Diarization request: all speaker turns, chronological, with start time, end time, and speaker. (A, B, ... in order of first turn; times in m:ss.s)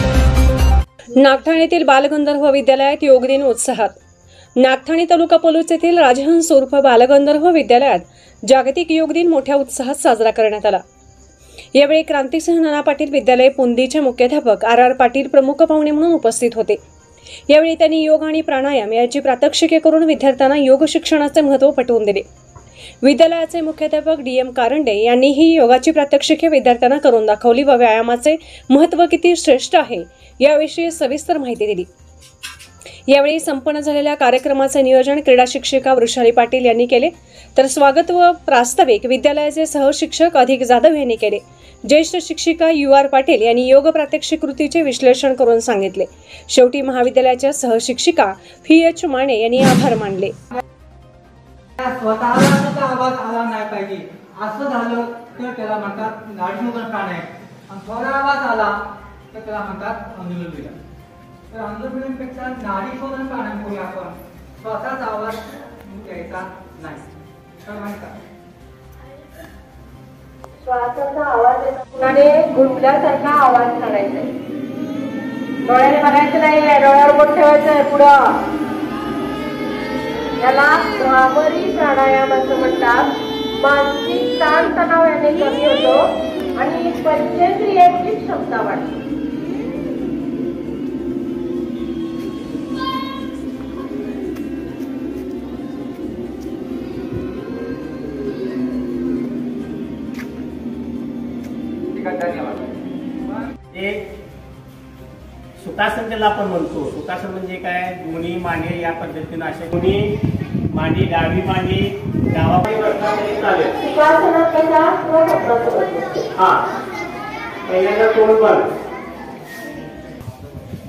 0:01.2-0:04.0 A
0:04.6-0:10.8 A
0:11.7-0:16.8 A
0:17.5-0:22.2 A
0:23.0-0:31.9 A
0:33.1-0:50.3 A
0:51.8-0:58.7 B
0:59.3-1:00.8 B
1:01.5-1:07.1 B
1:07.6-1:08.2 B
1:10.6-1:14.3 C
1:15.6-1:18.4 C
1:20.4-1:29.0 C
1:41.9-1:43.5 B
1:43.7-1:44.1 D
1:45.6-1:53.8 D
1:53.8-1:56.3 C
1:56.4-1:56.7 D
1:57.7-1:58.7 D